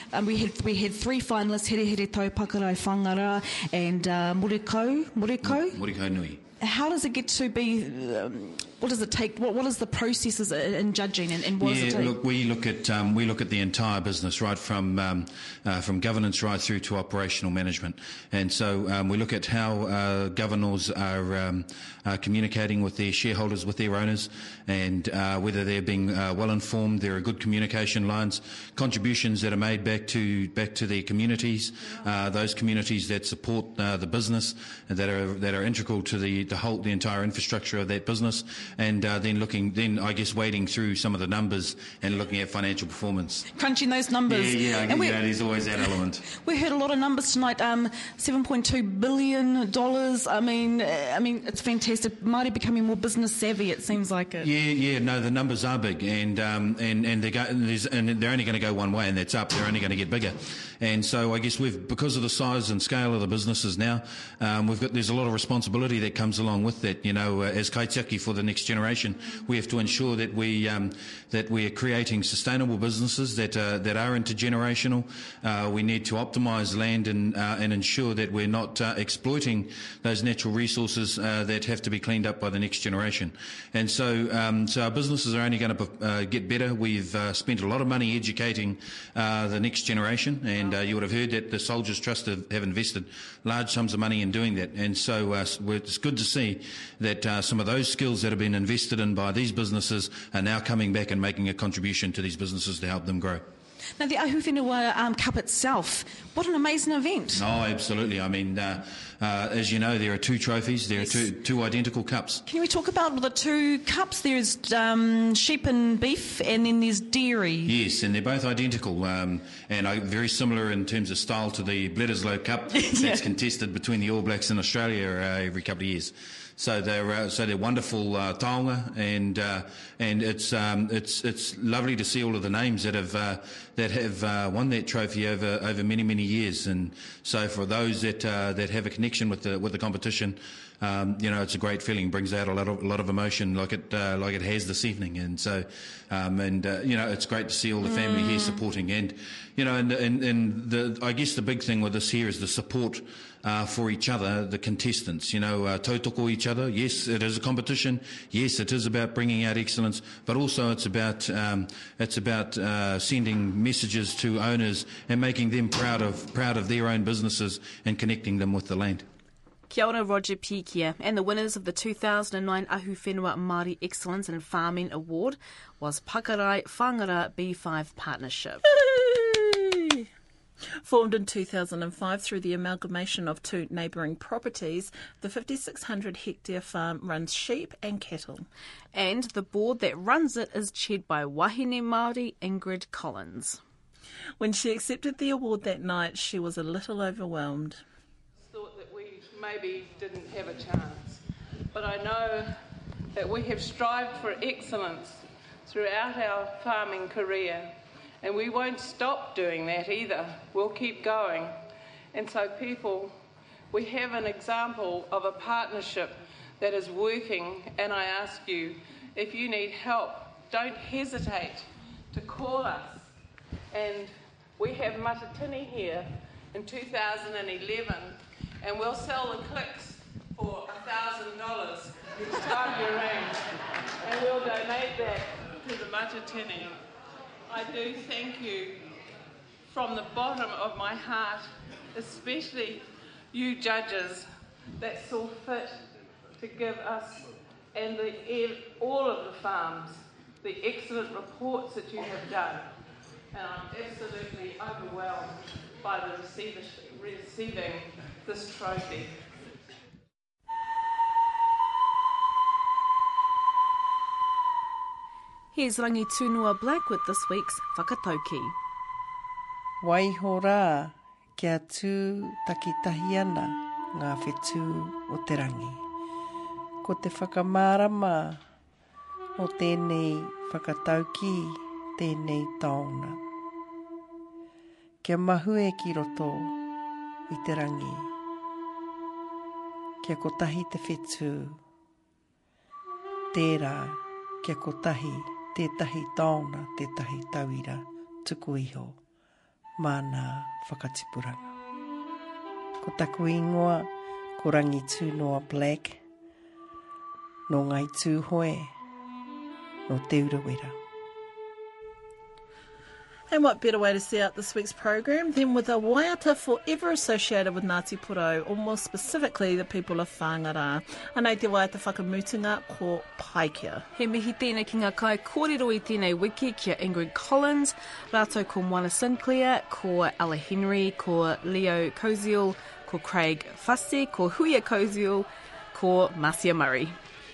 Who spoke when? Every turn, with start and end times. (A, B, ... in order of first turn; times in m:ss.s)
0:00.1-0:05.8 A
0:05.4-0:06.4 B
0:06.6-0:12.1 A
0:10.3-0:10.6 C
0:11.4-0:12.1 C
0:11.6-0:43.4 B
0:43.5-0:45.1 A
0:44.3-0:46.2 B
0:44.9-0:45.1 C
0:46.4-0:50.4 A
0:49.1-0:51.4 C
0:51.3-0:54.5 A
0:53.3-0:54.4 C
0:54.4-1:43.4 B
1:44.0-1:47.4 A
1:47.3-1:52.4 B
1:51.0-1:51.2 A
1:52.4-1:57.7 A
1:57.6-2:49.0 B
2:02.7-2:03.2 A
2:27.8-2:28.6 A
2:49.7-2:58.6 C
2:58.7-3:00.0 D
3:00.8-3:08.5 D
3:08.9-3:13.6 C
3:14.4-3:17.8 D
3:18.4-3:21.2 E
3:21.7-3:22.5 E
3:23.1-3:31.6 E
3:32.1-3:33.1 E
3:33.7-3:43.1 E
3:43.7-3:53.5 E
3:54.0-3:56.8 E
3:57.5-3:58.8 E
3:59.7-4:04.3 E
4:04.8-4:05.8 E
4:06.4-4:12.7 E
4:13.3-4:19.2 E
4:25.5-4:28.6 C
4:29.8-4:35.8 F
4:36.8-4:38.4 F
4:39.4-4:43.2 F
4:45.0-4:46.6 F
4:47.3-4:48.1 F
4:50.0-4:51.6 F
4:53.3-4:59.0 F
4:59.8-5:01.5 F
5:02.8-5:06.0 F
5:07.5-5:08.8 F
5:09.9-5:10.8 F
5:13.3-5:23.8 D
5:23.9-5:36.9 C